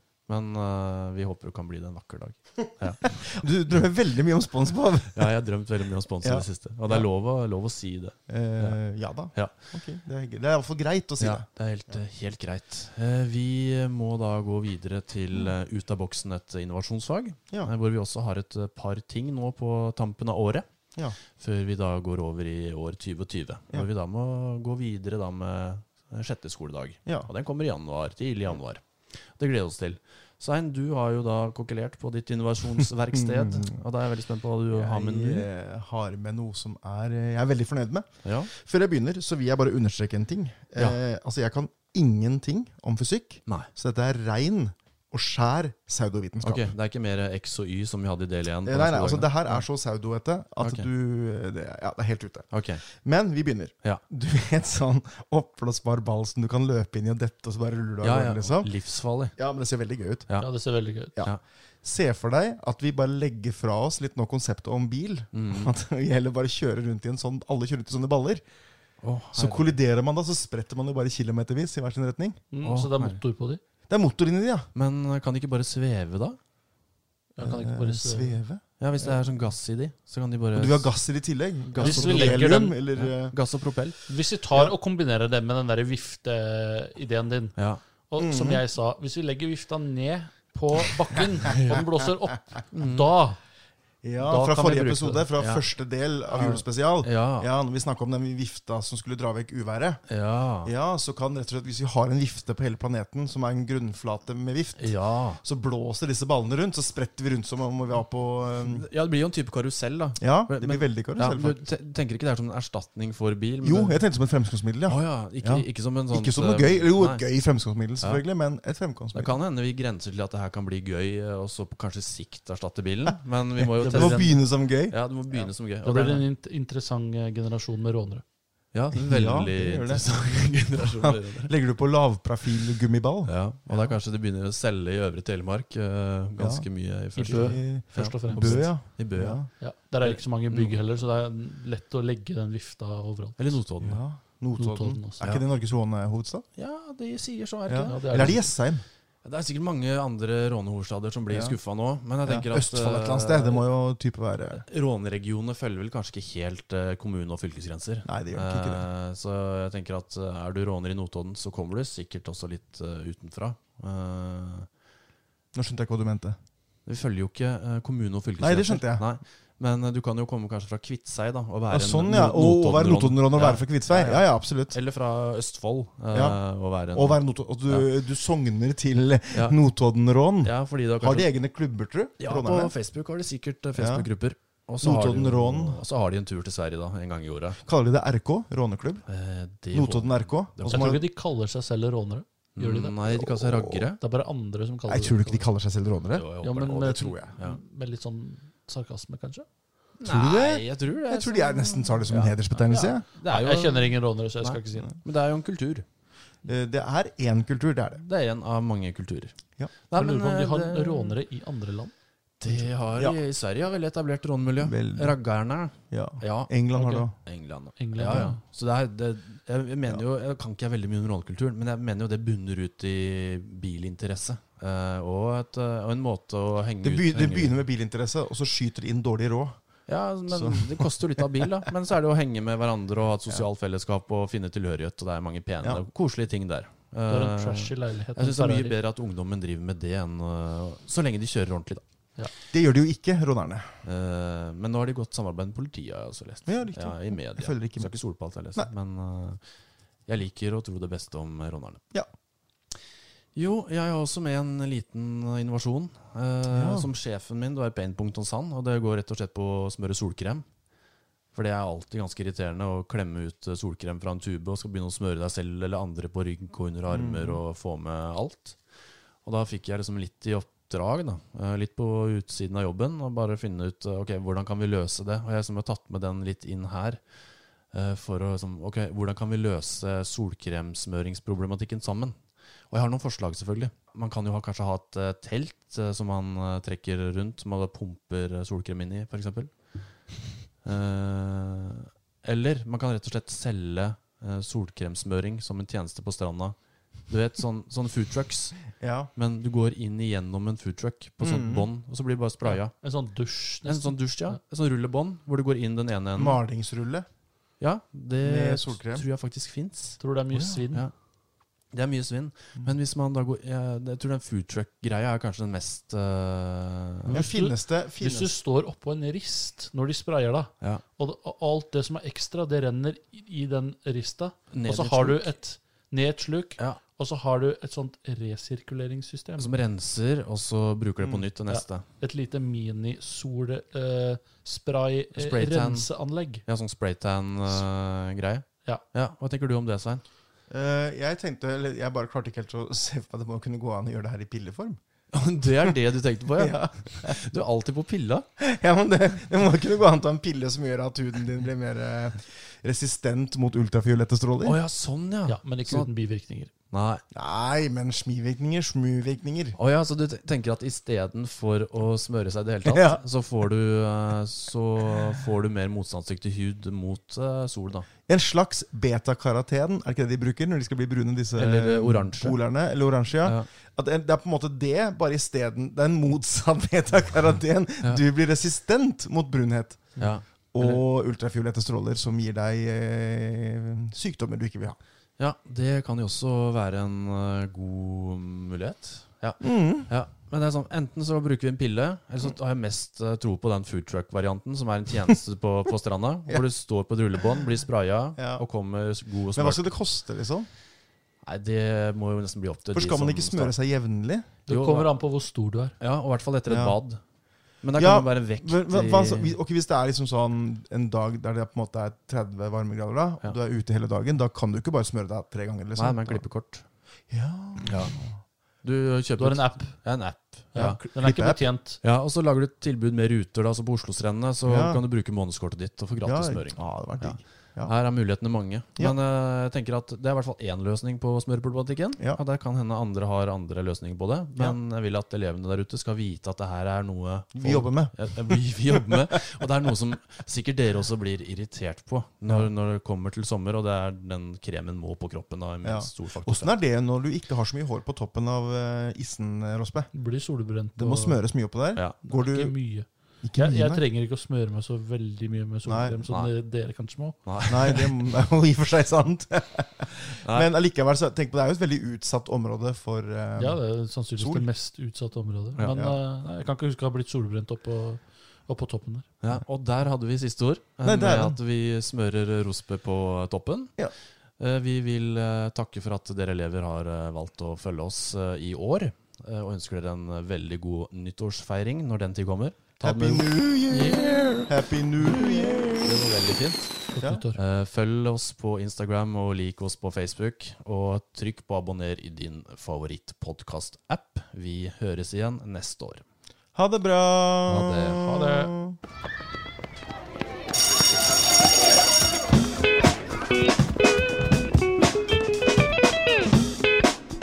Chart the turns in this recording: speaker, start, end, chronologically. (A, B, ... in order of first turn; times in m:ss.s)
0:00.3-0:03.0 A
0:03.0-0:05.3 B
0:05.1-0:08.8 A
0:06.2-0:07.1 B
0:08.3-0:11.4 B
0:11.2-0:20.6 A
0:21.3-0:35.5 A
0:33.1-0:33.8 B
0:34.7-0:46.7 B
0:38.2-0:38.5 A
0:46.4-0:49.6 A
0:48.6-0:58.7 B
0:50.6-0:50.9 A
0:52.5-0:52.8 A
0:58.0-0:59.3 A
0:59.4-1:00.3 B
1:00.4-1:01.2 C
1:01.8-1:08.4 B
1:05.3-1:05.7 A
1:09.0-1:09.8 A
1:09.3-1:12.4 B
1:12.5-1:13.6 C
1:12.6-1:13.2 A
1:13.9-1:14.7 B
1:14.7-1:16.4 A
1:17.4-1:18.4 C
1:17.4-1:18.6 B
1:18.8-1:20.9 A
1:20.5-1:23.3 B
1:21.7-1:24.0 A
1:21.8-1:22.8 C
1:24.1-1:27.6 C
1:28.1-1:33.4 C
1:28.2-1:28.6 B
1:31.5-1:31.8 A
1:32.7-1:33.1 A
1:34.0-1:40.0 B
1:34.2-1:35.3 C
1:35.4-1:35.6 A
1:36.3-1:37.5 A
1:40.1-1:40.7 A
1:40.6-1:48.8 B
1:44.8-1:45.4 A
1:48.7-1:54.0 A
1:50.2-1:51.6 B
1:53.6-1:59.3 B
1:54.9-1:57.2 A
1:59.1-2:06.2 A
2:03.6-2:05.0 B
2:03.8-2:04.4 C
2:05.8-2:08.2 C
2:08.7-2:11.5 A
2:08.9-2:13.9 B
2:13.2-2:19.4 A
2:16.4-2:19.5 B
2:17.2-2:18.9 C
2:19.6-2:23.5 C
2:20.0-2:20.8 A
2:23.4-2:24.0 A
2:23.8-2:26.4 B
2:24.6-2:25.3 C
2:26.6-2:28.4 A
2:27.7-2:28.8 B
2:27.8-2:28.5 C
2:29.2-2:33.6 A
2:31.3-2:31.6 B
2:32.2-2:34.6 B
2:34.5-2:44.7 A
2:38.0-2:38.8 B
2:45.5-2:46.4 B
2:46.8-2:57.9 A
2:48.4-2:49.0 B
2:51.7-2:54.8 B
2:56.1-2:56.4 B
2:56.9-3:02.7 B
2:59.3-2:59.6 A
3:00.4-3:01.3 A
3:02.2-3:07.6 A
3:03.7-3:04.0 B
3:04.8-3:05.8 B
3:07.6-3:09.0 B
3:09.1-3:11.0 A
3:09.7-3:11.0 B
3:10.7-3:12.9 C
3:12.6-3:14.0 A
3:13.2-3:13.8 B
3:14.0-3:15.5 C
3:14.9-3:16.2 B
3:16.1-3:17.6 A
3:16.4-3:19.4 C
3:16.8-3:17.2 B
3:20.0-3:25.8 A
3:20.0-3:23.0 B
3:23.2-3:24.9 C
3:26.4-3:28.0 B
3:28.0-3:29.3 A
3:29.9-3:31.2 A
3:29.9-3:31.9 C
3:32.4-3:36.5 A
3:32.5-3:33.2 B
3:34.6-3:35.2 B
3:35.9-3:37.1 B
3:36.7-3:37.0 C
3:37.2-3:47.6 A
3:37.8-3:38.4 C
3:46.8-3:49.6 B
3:49.9-4:01.8 A
3:50.3-3:50.9 B
3:57.1-3:58.7 C
4:02.5-4:03.7 B
4:03.8-4:09.4 A
4:06.4-4:07.9 B
4:10.1-4:11.8 A
4:13.3-4:20.4 A
4:16.5-4:16.9 B
4:21.3-4:28.6 A
4:26.9-4:27.4 B
4:29.2-4:37.0 A
4:37.7-4:42.2 A
4:42.7-4:49.5 A
4:50.6-4:56.6 A
4:57.1-4:58.6 A
4:58.8-4:59.1 B
4:59.2-5:02.7 A
5:01.2-5:01.7 B
5:02.4-5:04.4 C
5:03.6-5:06.4 A
5:06.2-5:07.1 B
5:07.6-5:10.0 A
5:08.2-5:09.0 B
5:10.0-5:10.9 C
5:10.3-5:10.6 B
5:11.7-5:17.2 A
5:17.1-5:18.4 B
5:17.1-5:29.5 C
5:24.5-5:25.3 A
5:29.4-5:31.8 A
5:31.5-5:36.4 C
5:35.1-5:35.9 A
5:36.4-5:40.0 A
5:40.5-5:44.8 B
5:45.1-5:48.2 A
5:46.4-5:47.2 B
5:48.4-5:54.6 B
5:54.4-5:55.9 A
5:55.3-5:56.5 C
5:56.7-5:57.0 A
5:57.1-5:59.6 B
5:59.6-6:07.9 A
6:02.6-6:03.0 B
6:08.1-6:20.0 B
6:11.4-6:12.4 A
6:20.0-6:20.8 A
6:20.5-6:24.8 B
6:25.2-6:39.7 A
6:29.4-6:29.9 B
6:38.2-6:38.4 B
6:39.3-6:40.5 B
6:41.2-6:43.5 A
6:42.7-6:44.3 B
6:44.5-6:45.8 C
6:44.5-6:44.9 A
6:45.8-6:47.0 A
6:46.5-6:46.8 B
6:47.6-6:49.4 A
6:47.8-6:56.2 B
6:55.8-6:56.6 A
6:57.1-6:58.2 B
6:57.6-6:57.9 A
6:58.6-7:00.8 A
6:59.2-6:59.8 C
7:00.5-7:01.8 C
7:01.0-7:01.4 B
7:01.8-7:26.6 A
7:04.4-7:04.8 B
7:06.0-7:07.7 B
7:17.3-7:19.2 B
7:25.6-7:29.9 B
7:29.9-7:31.2 C
7:30.8-7:32.6 B
7:32.1-7:37.4 C
7:33.2-7:33.8 B
7:35.6-7:36.0 B
7:36.1-7:36.3 A
7:37.2-7:37.9 A
7:37.5-7:43.6 B
7:40.2-7:40.5 A
7:43.4-7:49.1 C
7:44.2-7:44.5 B
7:45.7-7:46.0 B
7:49.2-7:53.7 A
7:50.8-7:51.4 B
7:54.4-8:16.0 A
8:02.8-8:06.0 B
8:06.9-8:07.4 C
8:16.5-8:18.8 B
8:17.4-8:18.5 A